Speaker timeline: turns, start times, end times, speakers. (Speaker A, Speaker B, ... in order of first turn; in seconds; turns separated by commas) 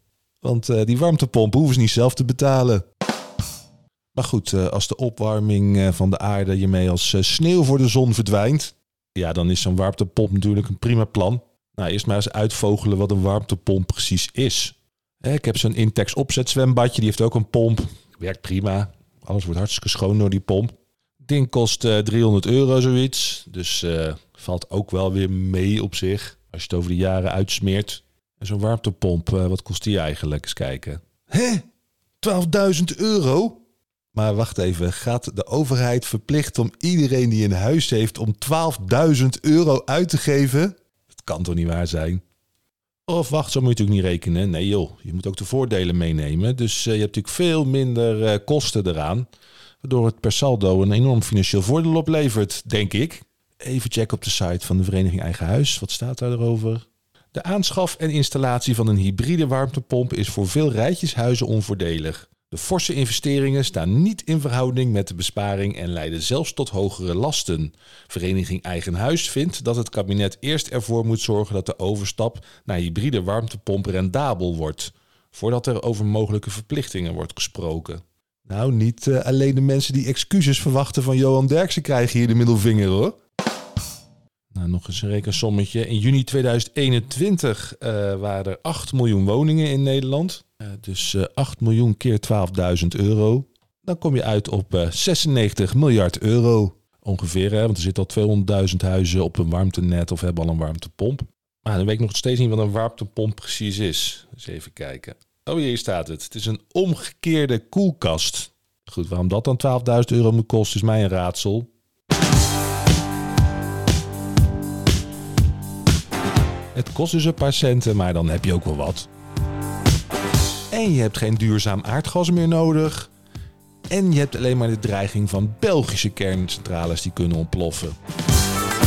Speaker A: 0.4-2.9, Speaker A: 4.1-31.7, Speaker A: 32.2-33.6, Speaker A: 34.1-42.2, Speaker A: 43.1-49.3, Speaker A: 49.8-83.2, Speaker A: 84.5-111.7, Speaker A: 116.7-119.1, Speaker A: 120.7-123.1, Speaker A: 123.9-128.0